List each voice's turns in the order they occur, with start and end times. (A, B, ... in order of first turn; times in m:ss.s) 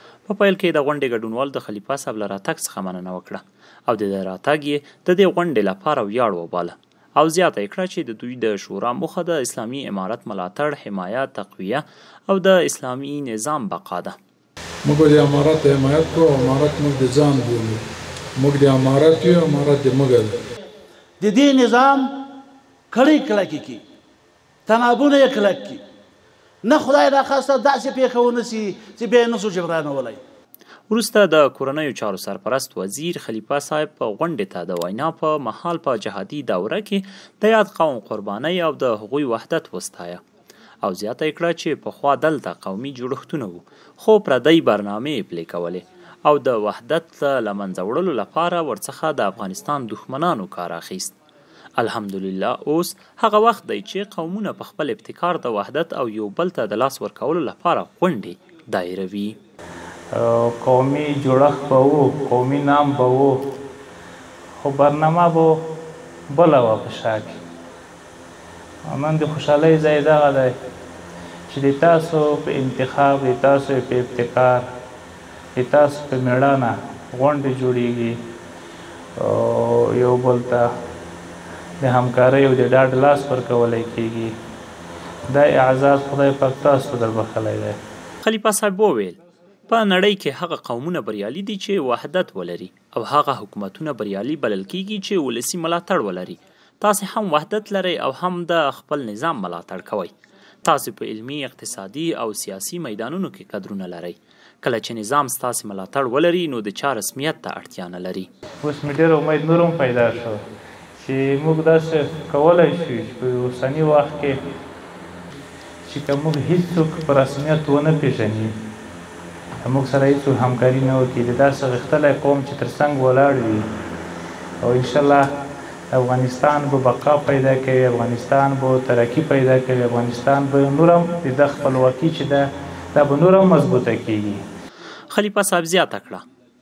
0:00.3-0:14.2 A
0:14.8-0:17.8 B
0:18.4-0:20.4 B
0:21.2-0:22.1 C
0:22.9-0:23.8 C
0:24.7-0:25.8 C
0:26.6-0:30.2 C
0:30.9-0:40.2 A
0:40.8-0:51.2 A
0:51.8-0:59.4 A
1:00.1-1:03.4 D
1:04.6-1:05.6 D
1:06.3-1:07.4 D
1:08.9-1:10.5 D
1:11.5-1:14.6 D
1:15.6-1:18.2 D
1:19.2-1:20.6 D
1:21.8-1:24.3 D
1:25.3-1:27.8 D
1:28.2-1:40.1 A
1:40.6-1:48.3 A
1:48.6-1:50.4 D
1:51.0-1:54.4 D
1:55.8-1:58.5 D
1:59.6-2:03.6 D
2:04.6-2:05.3 D
2:05.9-2:14.4 D
2:15.1-2:16.2 A